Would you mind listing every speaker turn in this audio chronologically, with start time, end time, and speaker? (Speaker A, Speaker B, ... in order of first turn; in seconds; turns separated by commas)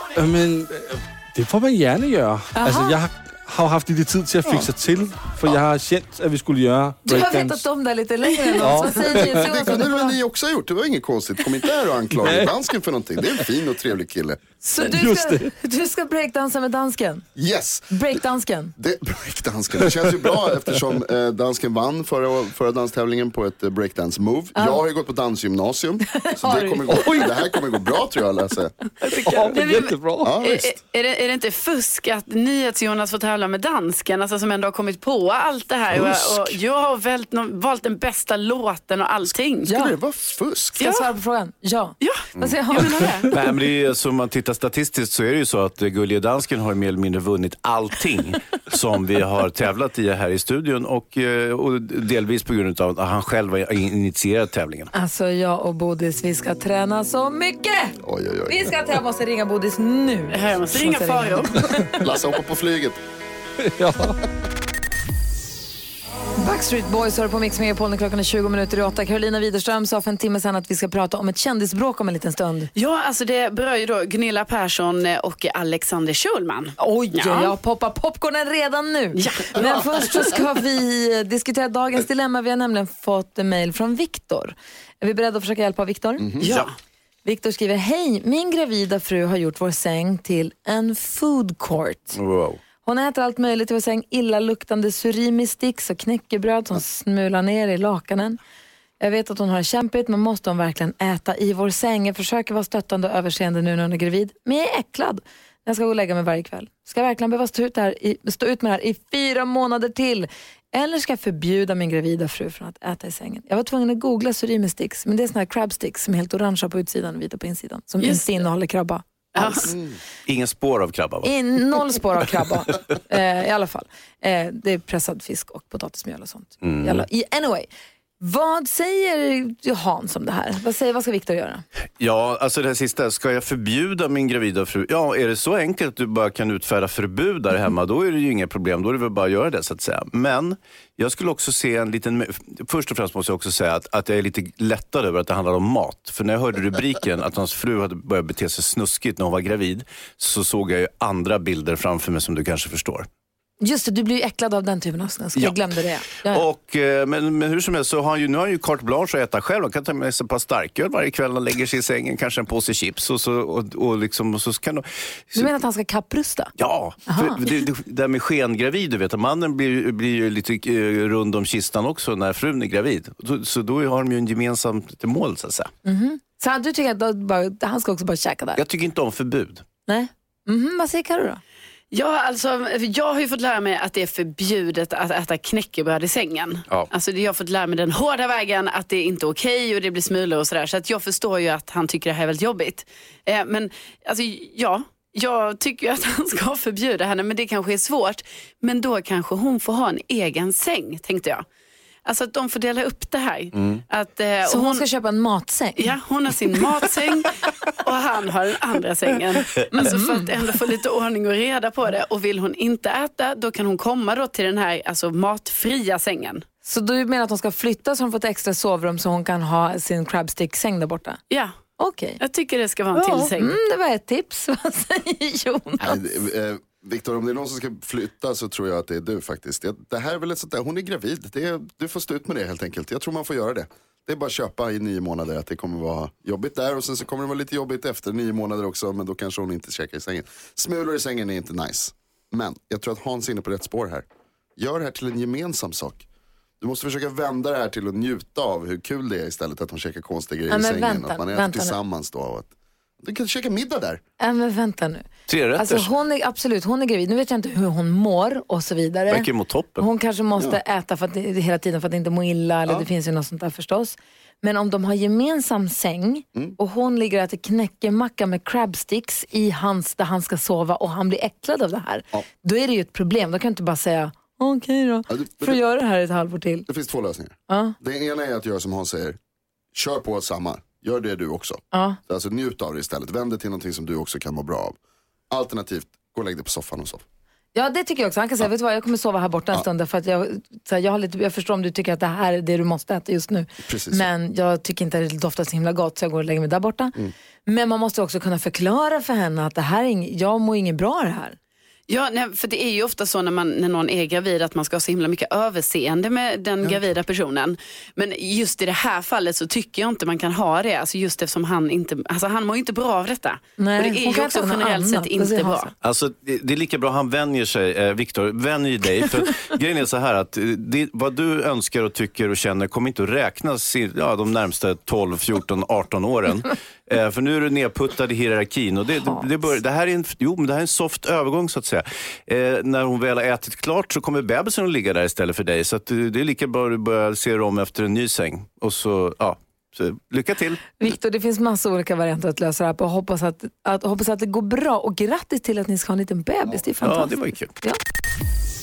Speaker A: 0.1-7.7, Speaker B: 2.5-3.0, Speaker B: 7.0-10.2, Speaker A: 8.6-9.5, Speaker C: 9.2-14.4, Speaker A: 12.1-12.5, Speaker B: 14.6-17.3, Speaker A: 14.8-15.5, Speaker C: 17.4-18.1, Speaker B: 17.9-18.7, Speaker C: 18.8-28.8, Speaker B: 24.6-24.8, Speaker B: 26.1-27.1, Speaker A: 29.0-30.3, Speaker D: 29.2-39.7, Speaker C: 30.2-30.7, Speaker C: 35.9-36.6, Speaker B: 39.7-40.0, Speaker C: 39.7-40.8, Speaker B: 40.8-43.0, Speaker D: 40.8-41.0, Speaker D: 42.0-43.3, Speaker E: 43.3-54.9, Speaker B: 54.9-58.0, Speaker C: 58.0-58.8, Speaker B: 58.5-62.0, Speaker D: 60.3-61.5, Speaker C: 62.0-63.0, Speaker A: 63.8-64.2, Speaker B: 66.4-72.7, Speaker D: 72.8-77.5, Speaker B: 76.8-86.3, Speaker D: 79.2-80.1, Speaker C: 86.2-86.5, Speaker D: 86.4-86.7, Speaker E: 86.4-86.7, Speaker B: 87.2-92.2, Speaker E: 92.1-92.6, Speaker B: 92.8-98.4, Speaker B: 99.0-119.7, Speaker D: 118.0-118.3, Speaker D: 119.3-119.7, Speaker C: 119.7-120.0, Speaker E: 120.3-121.3, Speaker B: 121.2-127.7, Speaker E: 126.6-127.0, Speaker B: 128.2-131.6, Speaker E: 132.0-153.1, Speaker B: 153.6-156.4, Speaker E: 155.4-155.7, Speaker E: 156.3-165.5, Speaker B: 165.4-166.5, Speaker E: 166.6-175.7, Speaker B: 167.1-167.4, Speaker B: 175.8-178.6, Speaker E: 178.6-179.6, Speaker B: 179.9-181.4, Speaker D: 181.9-201.4, Speaker D: 202.1-204.8, Speaker E: 203.5-203.8, Speaker B: 204.5-205.9, Speaker D: 205.8-207.3, Speaker D: 207.8-216.4, Speaker B: 209.7-210.3, Speaker B: 216.7-221.2, Speaker B: 221.8-222.2, Speaker D: 222.2-223.5, Speaker B: 222.9-226.0, Speaker C: 225.8-246.1, Speaker C: 246.6-254.0, Speaker B: 250.5-251.8, Speaker B: 254.2-276.7, Speaker E: 255.3-255.9, Speaker E: 259.1-259.9, Speaker C: 275.1-275.6, Speaker C: 276.7-279.2, Speaker B: 277.5-277.8, Speaker C: 279.7-284.8, Speaker B: 281.7-282.0, Speaker C: 285.3-287.0, Speaker B: 287.6-296.9, Speaker C: 293.7-294.1, Speaker B: 297.5-301.4, Speaker D: 301.9-315.7, Speaker B: 313.6-315.7, Speaker E: 315.8-340.6, Speaker B: 340.8-347.8, Speaker E: 346.8-347.5